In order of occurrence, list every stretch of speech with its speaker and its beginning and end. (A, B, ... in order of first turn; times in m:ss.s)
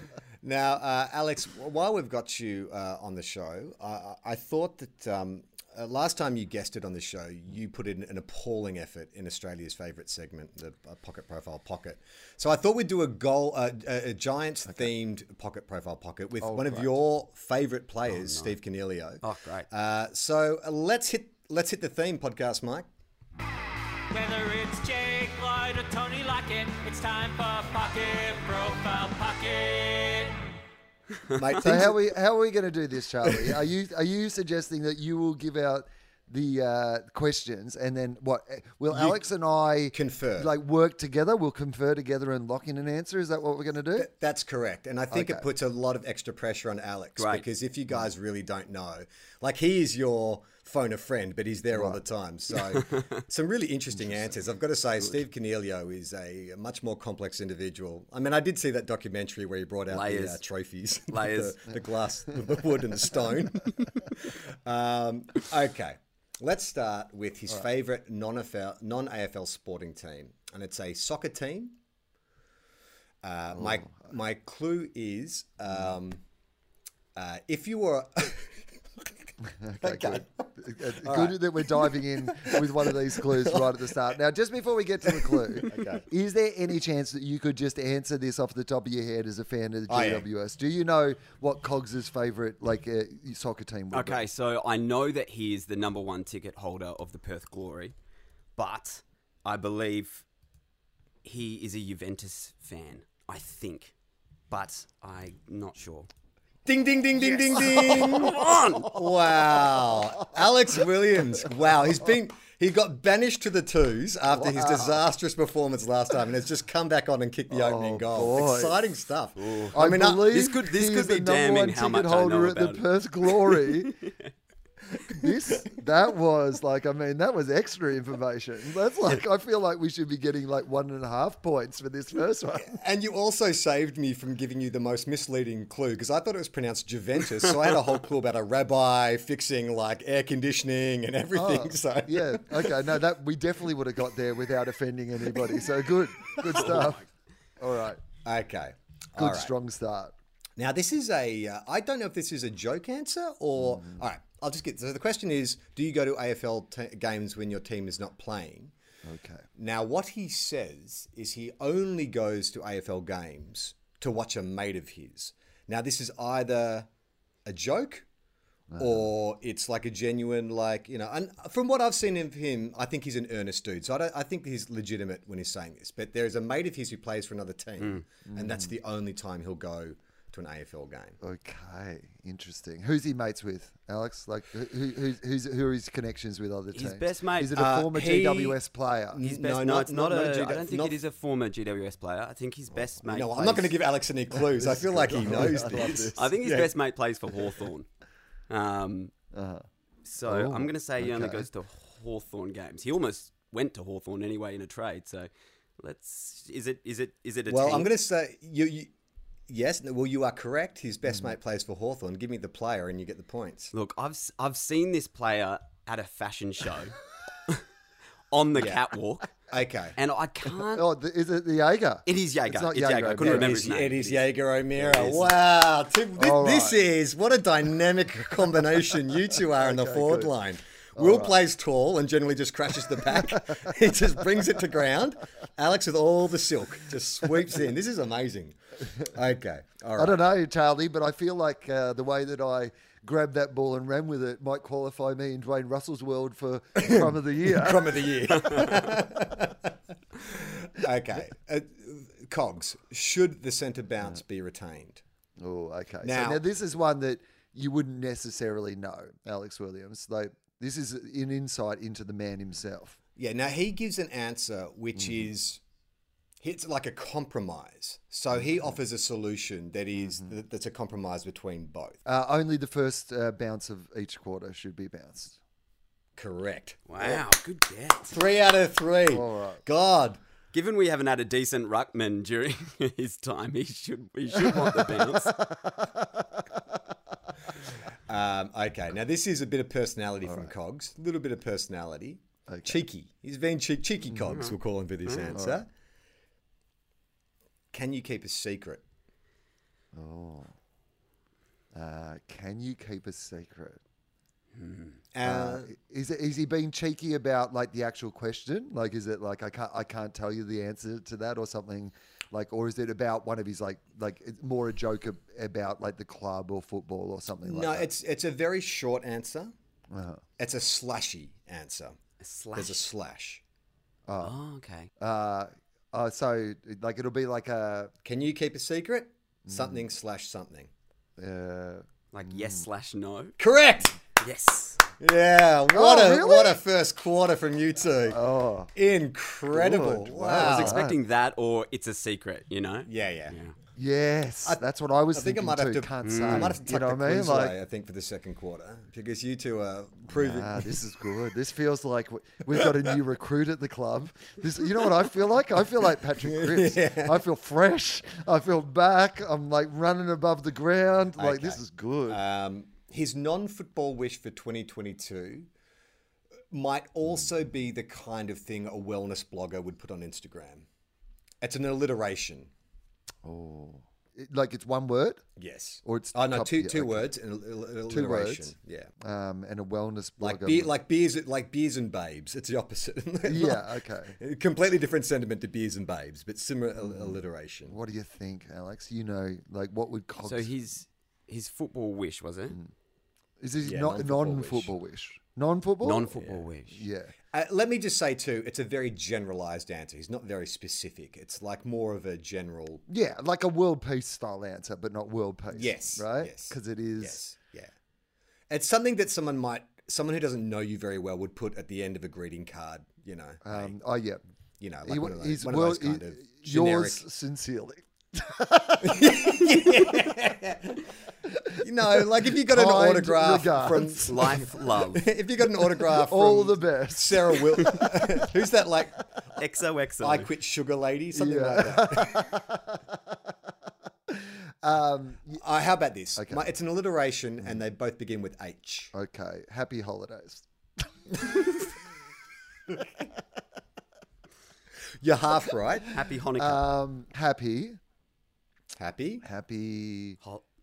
0:00.4-0:22.9 A
0:16.4-0:16.9 B
0:18.1-0:18.6 C
0:19.2-0:19.7 C
0:24.1-0:30.4 D
0:31.3-0:32.0 A
0:31.6-0:44.1 B
0:38.9-0:39.3 A
0:39.9-0:40.5 A
0:44.0-1:11.8 A
0:45.1-0:45.5 B
0:47.2-0:47.5 C
0:51.8-0:52.0 B
0:52.7-0:53.0 C
0:54.1-0:54.4 B
0:59.9-1:00.4 C
1:01.1-1:01.8 C
1:13.2-1:16.2 A
1:13.6-1:14.1 B
1:17.2-1:19.2 A
1:19.4-1:34.3 B
1:19.8-1:24.2 A
1:25.1-1:26.1 A
1:29.9-1:30.3 A
1:33.9-1:38.0 C
1:38.6-1:40.3 C
1:41.2-1:44.0 C
1:44.5-1:46.1 C
1:46.6-2:00.3 A
1:47.2-1:48.1 B
1:47.5-1:48.9 C
1:54.4-1:55.0 B
1:57.5-1:58.9 B
1:59.4-2:04.1 C
1:59.8-2:04.0 B
2:05.1-2:12.8 B
2:12.6-2:22.9 A
2:21.3-2:27.0 B
2:26.4-2:27.1 C
2:27.6-2:28.0 B
2:28.2-2:29.5 A
2:29.2-2:30.2 B
2:30.6-2:38.7 A
2:33.6-2:34.0 B
2:39.0-2:39.5 B
2:39.6-2:46.9 A
2:47.5-2:48.1 A
2:48.7-2:49.1 B
2:48.8-3:01.2 A
2:58.3-2:58.8 B
3:01.2-3:09.2 B
3:06.7-3:07.6 C
3:07.5-3:08.6 A
3:09.1-3:11.0 A
3:09.2-3:13.8 C
3:12.7-3:16.7 A
3:14.4-3:16.3 B
3:15.5-3:17.9 C
3:18.5-3:19.1 C
3:19.3-3:19.6 B
3:20.1-3:28.0 C
3:20.2-3:21.5 B
3:27.5-3:28.9 A
3:29.5-3:33.7 A
3:33.7-3:37.0 C
3:38.3-3:40.8 C
3:38.5-3:38.8 A
3:39.5-3:40.0 A
3:40.7-3:43.7 B
3:42.1-3:44.2 C
3:43.2-4:00.2 A
3:44.9-3:45.2 C
3:46.2-3:46.8 B
3:49.6-3:50.3 B
3:51.0-3:51.4 B
3:53.3-3:53.7 B
4:00.0-4:08.6 B
4:06.8-4:15.0 A
4:15.4-4:23.0 B
4:16.0-4:16.4 A
4:23.2-4:25.6 A
4:26.4-4:32.0 A
4:30.0-4:30.3 B
4:32.1-4:35.4 B
4:36.2-4:37.3 A
4:36.9-4:38.2 C
4:38.1-4:40.2 A
4:39.1-4:39.6 B
4:40.5-4:45.4 C
4:44.4-4:46.3 B
4:48.1-4:55.7 A
4:50.3-4:50.5 B
4:52.5-4:52.8 B
4:54.3-4:55.4 C
4:55.3-4:55.6 B
4:57.7-4:58.8 A
5:00.0-5:00.5 B
5:01.8-5:03.8 B
5:04.6-5:05.0 C
5:05.1-5:05.7 A
5:05.2-5:17.9 B
5:17.4-5:19.5 A
5:19.9-5:20.2 B
5:20.4-5:22.0 A
5:22.2-5:22.9 C
5:22.5-5:23.4 A
5:24.1-5:24.4 B
5:24.2-5:24.9 C
5:25.0-5:27.9 B
5:28.0-5:30.7 A
5:29.5-5:29.8 B
5:31.2-5:32.7 B
5:32.1-5:33.4 C
5:33.4-5:34.0 A
5:34.2-5:34.8 C
5:35.0-5:38.2 A
5:35.7-5:36.6 B
5:38.1-5:38.7 B
5:38.7-5:40.8 A
5:39.5-5:41.0 B
5:40.4-5:43.6 C
5:42.9-5:43.4 A
5:43.8-5:47.6 B
5:44.4-5:50.8 A
5:46.0-5:46.6 C
5:50.1-6:02.2 B
5:56.1-5:57.2 A
6:01.2-6:05.5 A
6:06.5-6:10.7 A
6:11.4-6:12.5 A
6:13.2-6:15.2 B
6:15.4-6:18.9 A
6:15.8-6:17.1 B
6:17.9-6:20.7 B
6:20.2-6:27.8 A
6:23.2-6:24.2 B
6:26.8-6:30.5 B
6:30.2-6:32.6 C
6:33.4-6:36.2 B
6:33.6-6:34.7 A
6:35.8-6:36.8 C
6:36.1-6:36.4 A
6:36.7-6:37.1 B
6:37.3-6:42.8 A
6:42.9-6:47.2 B
6:45.5-6:47.7 A
6:48.5-6:53.8 A
6:53.4-6:54.2 B
6:54.6-6:57.0 A
6:54.8-6:59.8 B
6:58.8-7:00.9 A
7:01.3-7:04.1 B
7:01.6-7:09.3 A
7:04.0-7:05.2 C
7:06.0-7:07.9 B
7:09.4-7:10.3 C
7:10.0-7:12.4 A
7:11.1-7:12.8 B
7:14.1-7:15.4 B
7:15.4-7:18.9 A
7:16.2-7:16.5 B
7:18.9-7:21.5 B
7:25.0-7:25.9 A
7:25.9-7:26.6 C
7:26.4-7:27.8 B
7:28.8-7:29.2 A
7:29.2-7:30.2 B